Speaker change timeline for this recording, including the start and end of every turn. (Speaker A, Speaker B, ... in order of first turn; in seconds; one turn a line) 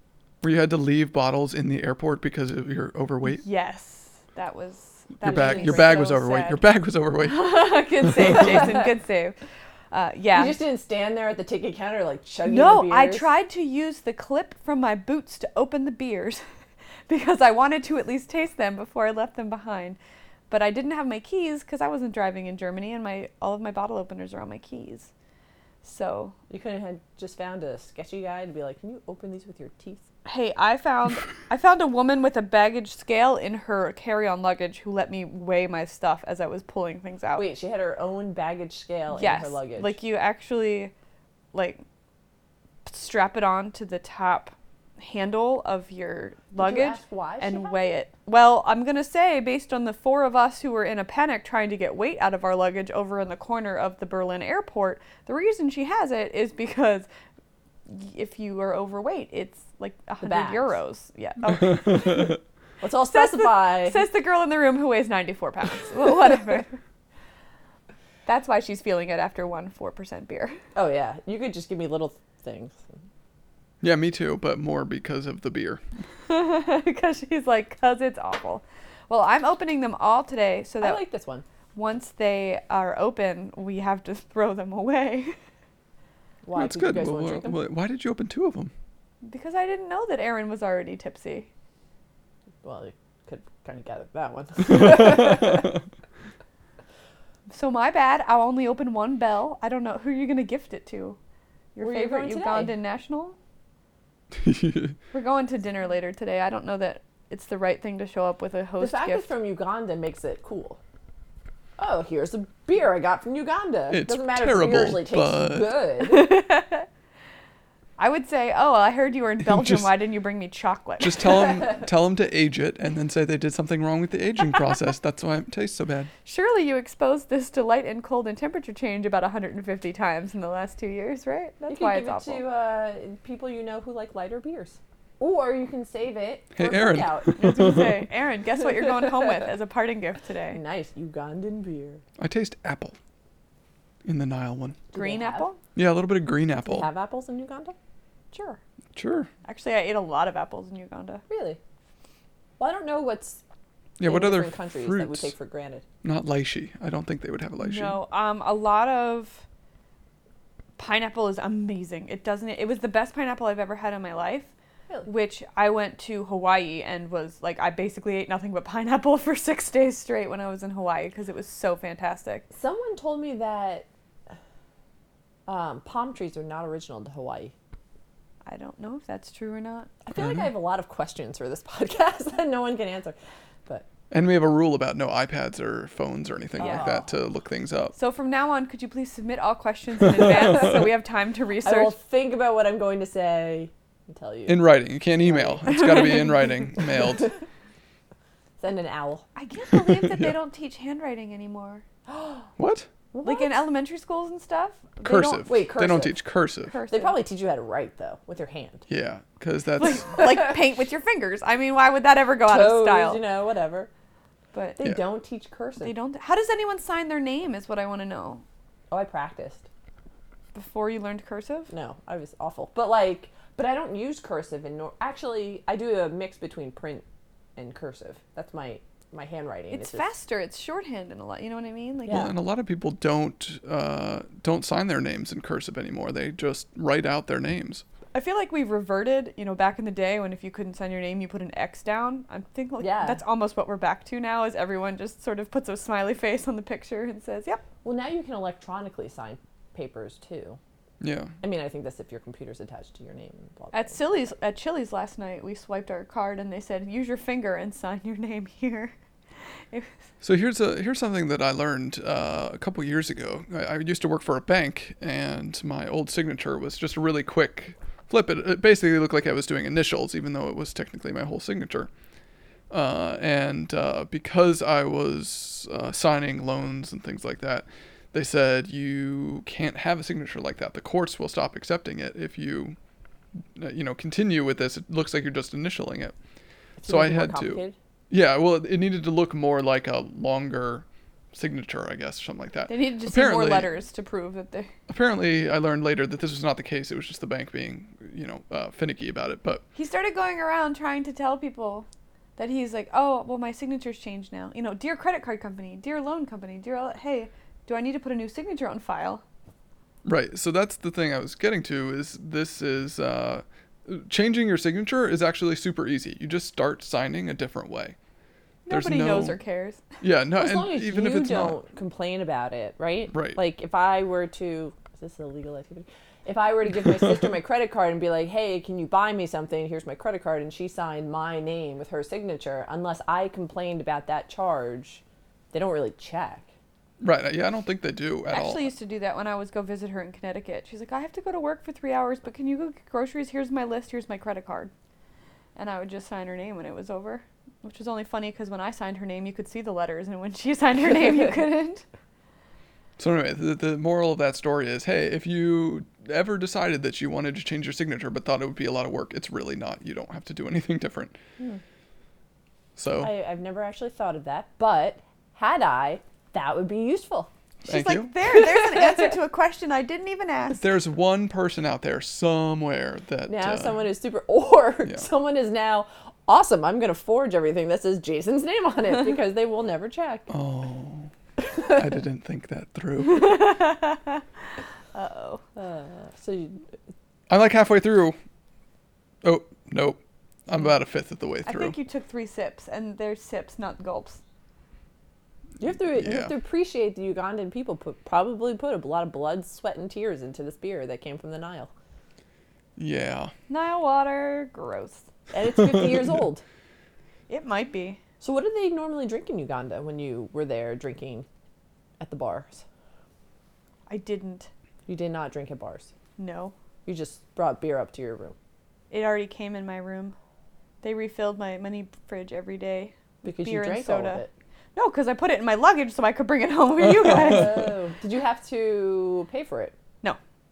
Speaker A: 0.4-3.4
Speaker B: 3.3-6.6
Speaker A: 5.2-8.6
Speaker C: 5.2-6.0
Speaker B: 7.2-9.3
Speaker C: 8.3-8.9
Speaker B: 9.9-10.6
Speaker C: 10.3-13.3
Speaker B: 12.4-16.4
Speaker B: 17.1-20.0
Speaker B: 20.5-25.1
Speaker B: 25.8-26.4
Speaker C: 26.5-30.0
Speaker B: 30.2-37.5
Speaker C: 37.4-40.0
Speaker B: 39.1-40.9
Speaker B: 41.5-41.8
Speaker B: 42.9-57.1
Speaker C: 46.6-48.0
Speaker B: 57.9-62.3
Speaker C: 60.2-60.8
Speaker A: 61.7-62.3
Speaker C: 62.8-64.1
Speaker B: 63.1-66.7
Speaker B: 68.2-70.6
Speaker C: 70.7-73.0
Speaker A: 73.8-75.8
Speaker B: 76.3-81.0
Speaker C: 80.8-81.4
Speaker B: 81.7-85.3
Speaker C: 86.4-87.6
Speaker A: 86.5-88.7
Speaker B: 89.2-91.5
Speaker C: 92.6-95.7
Speaker A: 94.7-95.8
Speaker B: 97.5-101.2
Speaker B: 101.7-103.4
Speaker C: 101.8-102.8
Speaker A: 104.3-105.0
Speaker B: 105.1-109.3
Speaker C: 108.8-110.8
Speaker C: 111.8-116.4
Speaker A: 113.9-115.8
Speaker B: 116.0-116.9
Speaker B: 118.0-121.4
Speaker A: 119.4-119.9
Speaker A: 121.0-126.1
Speaker B: 126.2-132.4
Speaker C: 131.7-137.4
Speaker A: 136.5-138.0
Speaker B: 137.3-140.6
Speaker C: 140.5-142.0
Speaker A: 142.2-142.9
Speaker A: 144.0-144.8
Speaker C: 144.9-145.5
Speaker B: 144.9-145.6
Speaker A: 145.7-146.9
Speaker C: 146.6-147.8
Speaker B: 148.3-148.6
Speaker A: 148.9-149.3
Speaker B: 149.4-151.2
Speaker C: 151.3-151.6
Speaker C: 152.6-153.4
Speaker A: 154.0-155.3
Speaker C: 154.0-155.8
Speaker A: 156.0-158.0
Speaker B: 157.6-159.4
Speaker B: 160.8-164.5
Speaker B: 165.1-172.4
Speaker C: 172.5-173.9
Speaker C: 175.5-177.5
Speaker B: 178.4-179.9
Speaker C: 180.0-183.9
Speaker A: 180.1-180.5
Speaker A: 184.1-187.9
Speaker C: 186.6-187.1
Speaker B: 187.9-192.0
Speaker C: 191.6-194.7
Speaker A: 194.5-197.3
Speaker C: 195.2-196.1
Speaker B: 195.7-196.4
Speaker C: 198.6-199.2
Speaker B: 199.3-201.8
Speaker A: 199.7-200.3
Speaker C: 202.1-202.5
Speaker A: 202.6-202.9
Speaker C: 203.1-203.5
Speaker B: 203.2-205.5
Speaker A: 205.0-206.8
Speaker C: 205.4-206.2
Speaker B: 206.7-207.2
Speaker C: 206.9-208.8
Speaker A: 208.9-210.2
Speaker B: 209.8-213.2
Speaker C: 212.4-213.9
Speaker B: 214.5-214.8
Speaker C: 214.8-215.9
Speaker B: 215.8-218.4
Speaker C: 218.9-219.7
Speaker B: 220.5-221.7
Speaker C: 221.7-227.0
Speaker C: 227.6-230.1
Speaker B: 229.7-232.3
Speaker C: 232.1-232.3
Speaker A: 232.1-237.8
Speaker B: 238.1-247.6
Speaker C: 242.8-243.2
Speaker C: 247.8-250.6
Speaker A: 251.0-251.3
Speaker C: 251.4-254.3
Speaker B: 253.7-258.9
Speaker B: 259.7-260.0
Speaker A: 260.2-271.9
Speaker A: 272.7-282.8
Speaker A: 283.6-286.1
Speaker C: 286.8-287.8
Speaker A: 286.9-293.7
Speaker B: 292.7-294.7
Speaker A: 294.9-299.6
Speaker B: 299.7-309.2
Speaker A: 310.0-317.9
Speaker B: 318.6-319.8
Speaker A: 318.7-319.4
Speaker A: 320.0-321.6
Speaker C: 320.3-336.5
Speaker A: 323.1-323.4
Speaker A: 337.0-338.7
Speaker B: 338.3-344.7
Speaker B: 345.6-351.8
Speaker A: 353.0-361.2
Speaker A: 362.8-363.1
Speaker C: 363.0-367.3
Speaker B: 367.6-370.7
Speaker A: 367.7-368.1
Speaker A: 370.6-373.9
Speaker C: 373.3-380.3
Speaker A: 380.3-383.5
Speaker B: 383.0-384.2
Speaker B: 384.9-385.4
Speaker C: 385.6-386.6
Speaker A: 387.3-388.1
Speaker A: 389.2-391.8
Speaker B: 391.4-394.2
Speaker C: 395.6-401.7
Speaker A: 395.9-396.3
Speaker A: 402.8-403.3
Speaker B: 403.5-405.1
Speaker C: 405.3-406.4
Speaker B: 407.3-408.0
Speaker C: 408.2-411.2
Speaker C: 412.0-412.6
Speaker B: 413.9-414.5
Speaker C: 414.9-415.9
Speaker B: 416.2-416.5
Speaker C: 416.8-418.4
Speaker B: 418.9-420.1
Speaker B: 420.8-424.2
Speaker C: 423.2-424.3
Speaker B: 424.8-427.7
Speaker C: 427.0-429.7